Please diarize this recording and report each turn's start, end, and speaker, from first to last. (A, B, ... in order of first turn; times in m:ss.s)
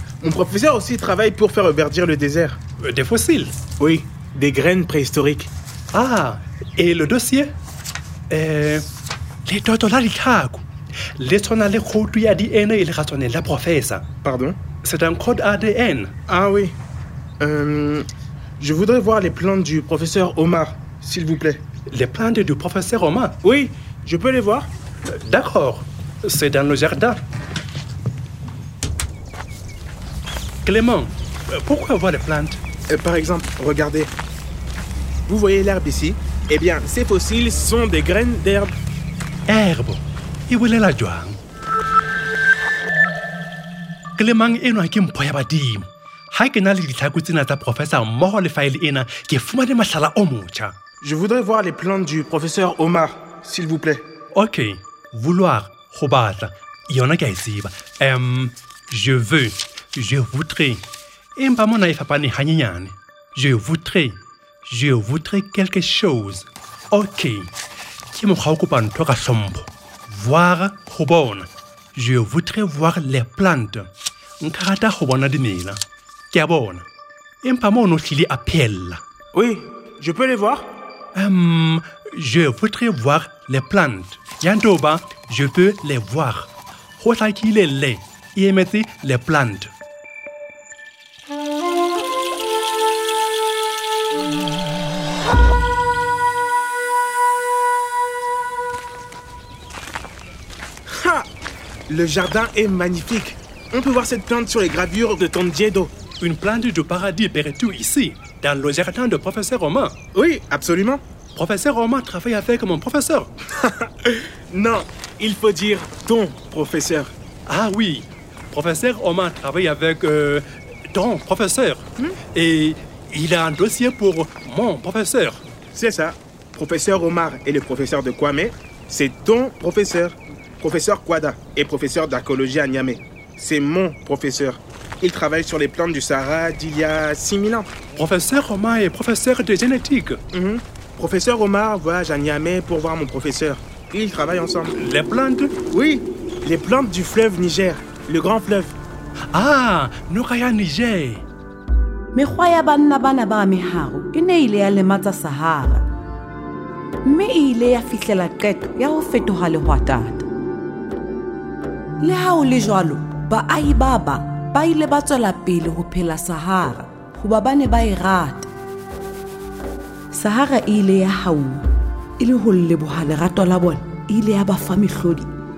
0:00.2-0:02.6 A
0:02.8-0:03.5 B
0:03.8-0:05.5 A
0:05.9-0:07.5 B
0:08.3-0:08.8 B
0:09.4-0:10.6 B
0:11.2-0:14.0 B
0:14.2-0:14.6 A
0:14.8-0:16.1 B
0:16.3-0:16.7 A
0:17.4-0:18.1 A
0:18.6-0:21.6 A
0:21.9-0:23.4 B
0:23.4-0:24.7 A
0:25.0-0:27.2 B
0:30.6-0:32.6 B
0:32.9-0:34.1 A
0:35.3-0:38.7 A
0:39.5-0:41.4 B
0:44.2-0:50.7 B
0:51.0-0:54.0 A
0:54.3-1:00.8 B
1:01.4-1:07.5 B
1:08.1-1:13.9 B
1:14.4-1:15.8 B
1:16.3-1:16.8 B
1:17.4-1:19.0 B
1:19.3-1:20.6 A
1:21.1-1:26.5 B
1:27.0-1:29.7 B
1:40.9-1:41.3 A
1:41.9-1:45.9 A
1:46.2-1:49.9 B
1:50.1-1:51.0 A
1:51.3-1:53.3 B
1:53.5-1:57.1 A
1:57.5-2:05.4 B
2:05.7-2:17.7 A
2:17.9-2:20.2 B
2:20.3-2:24.7 A
2:24.7-2:25.5 B
2:25.7-2:28.8 A
2:29.3-2:31.2 B
2:32.1-2:35.8 C
2:37.0-2:40.3 C
2:42.0-2:48.5 C
2:50.1-2:51.6 C
2:52.2-2:55.3 C